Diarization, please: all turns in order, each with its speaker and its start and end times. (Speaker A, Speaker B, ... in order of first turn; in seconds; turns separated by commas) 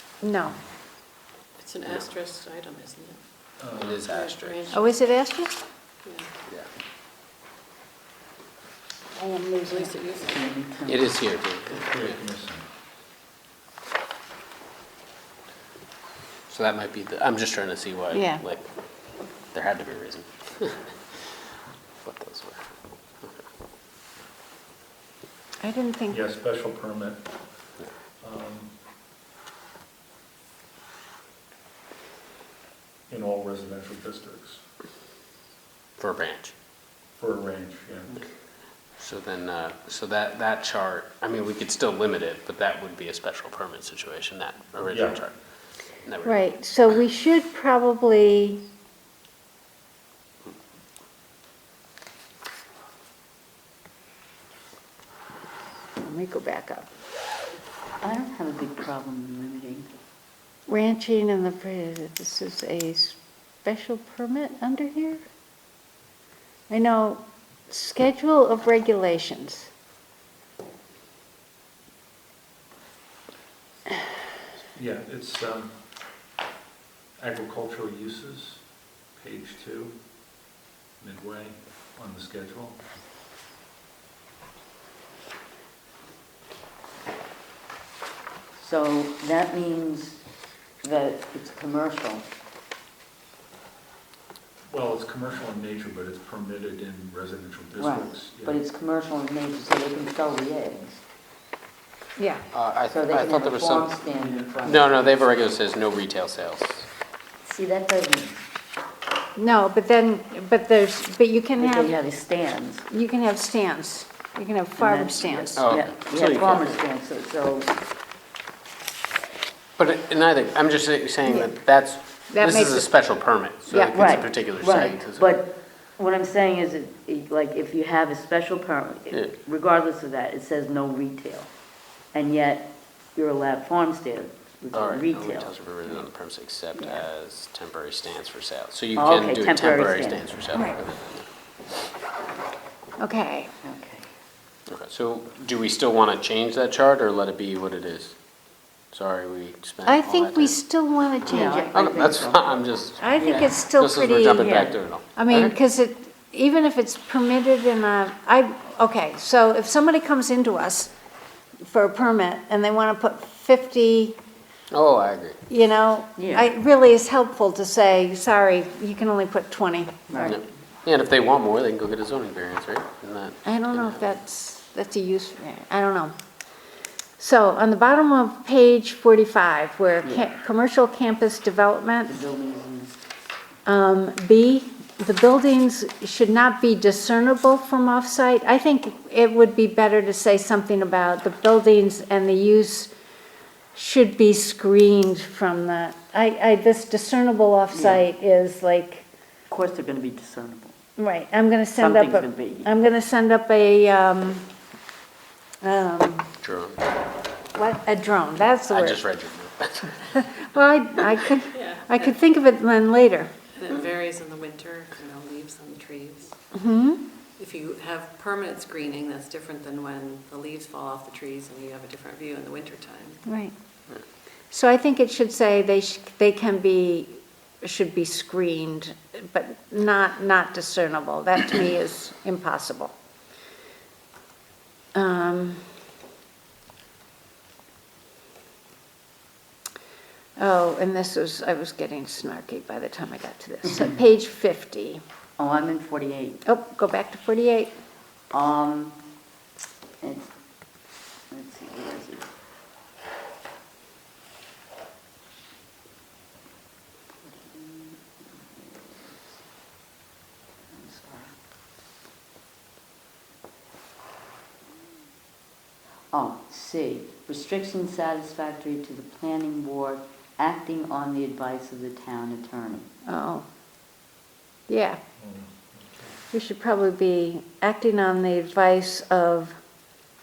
Speaker A: 0.2-0.6, Speaker B: 1.6-3.2, Speaker C: 3.6-4.1, Speaker D: 3.8-4.7, Speaker B: 4.0-4.9, Speaker A: 4.7-5.5, Speaker A: 9.2-9.9, Speaker B: 9.7-10.5, Speaker E: 10.2-11.1, Speaker D: 10.9-12.2, Speaker C: 11.7-12.7, Speaker D: 16.5-18.7, Speaker A: 18.1-18.4, Speaker D: 19.5-21.2, Speaker D: 22.0-22.7, Speaker A: 25.6-26.2, Speaker C: 26.1-27.3, Speaker C: 28.2-28.7, Speaker C: 33.1-34.6, Speaker D: 36.0-36.5, Speaker C: 37.2-38.2, Speaker D: 39.0-45.4, Speaker C: 44.9-45.3, Speaker D: 46.0-46.5, Speaker A: 46.2-48.6, Speaker A: 56.0-56.9, Speaker E: 58.0-59.9, Speaker A: 60.7-65.2, Speaker A: 66.7-69.7, Speaker C: 74.8-75.7, Speaker C: 77.2-80.0, Speaker C: 81.0-82.8, Speaker E: 88.6-90.2, Speaker E: 90.8-92.2, Speaker C: 94.7-98.6, Speaker E: 97.8-101.0, Speaker A: 102.2-102.4, Speaker D: 102.5-104.0, Speaker E: 102.9-104.9, Speaker C: 104.1-104.6, Speaker D: 104.6-106.9, Speaker E: 107.4-108.4, Speaker A: 109.4-111.9, Speaker E: 111.6-112.9, Speaker A: 112.9-115.7, Speaker E: 114.8-117.7, Speaker D: 115.5-116.8, Speaker D: 119.8-125.4, Speaker A: 121.3-121.6, Speaker A: 122.3-122.9, Speaker A: 123.7-124.1, Speaker E: 123.9-131.5, Speaker E: 132.1-135.6, Speaker D: 134.7-141.2, Speaker A: 136.8-137.0, Speaker E: 139.0-140.3, Speaker A: 140.5-140.8, Speaker A: 143.0-143.5, Speaker E: 143.6-144.1, Speaker D: 144.7-148.2, Speaker D: 148.9-150.6, Speaker A: 149.8-151.8, Speaker E: 151.3-153.6, Speaker D: 151.7-155.6, Speaker A: 153.0-160.9, Speaker E: 154.3-154.8, Speaker A: 161.6-164.2, Speaker D: 164.7-165.4, Speaker A: 165.5-170.4, Speaker E: 166.2-166.5, Speaker E: 170.1-170.4, Speaker D: 170.3-174.2, Speaker A: 173.4-176.2, Speaker A: 177.2-182.2, Speaker E: 180.0-180.3, Speaker E: 182.1-183.0, Speaker A: 183.7-192.9, Speaker A: 193.7-199.1, Speaker E: 197.7-198.1, Speaker E: 199.5-200.8, Speaker A: 201.0-204.5, Speaker E: 201.8-202.7, Speaker A: 205.6-206.3, Speaker D: 206.4-206.8, Speaker A: 207.5-209.0, Speaker D: 208.7-210.1, Speaker A: 210.1-213.3, Speaker B: 211.5-212.2, Speaker B: 213.6-216.3, Speaker A: 216.5-217.0, Speaker B: 217.4-223.2, Speaker A: 223.3-223.6, Speaker A: 224.5-232.9, Speaker A: 234.9-235.6, Speaker A: 240.4-245.0, Speaker E: 245.4-246.4, Speaker A: 246.5-247.7, Speaker E: 248.3-249.0, Speaker E: 250.0-250.3, Speaker E: 251.3-252.3, Speaker E: 257.2-259.2, Speaker E: 260.7-261.3, Speaker E: 266.1-272.9, Speaker A: 273.1-273.4, Speaker A: 274.7-275.0, Speaker C: 275.2-276.1, Speaker A: 276.3-279.6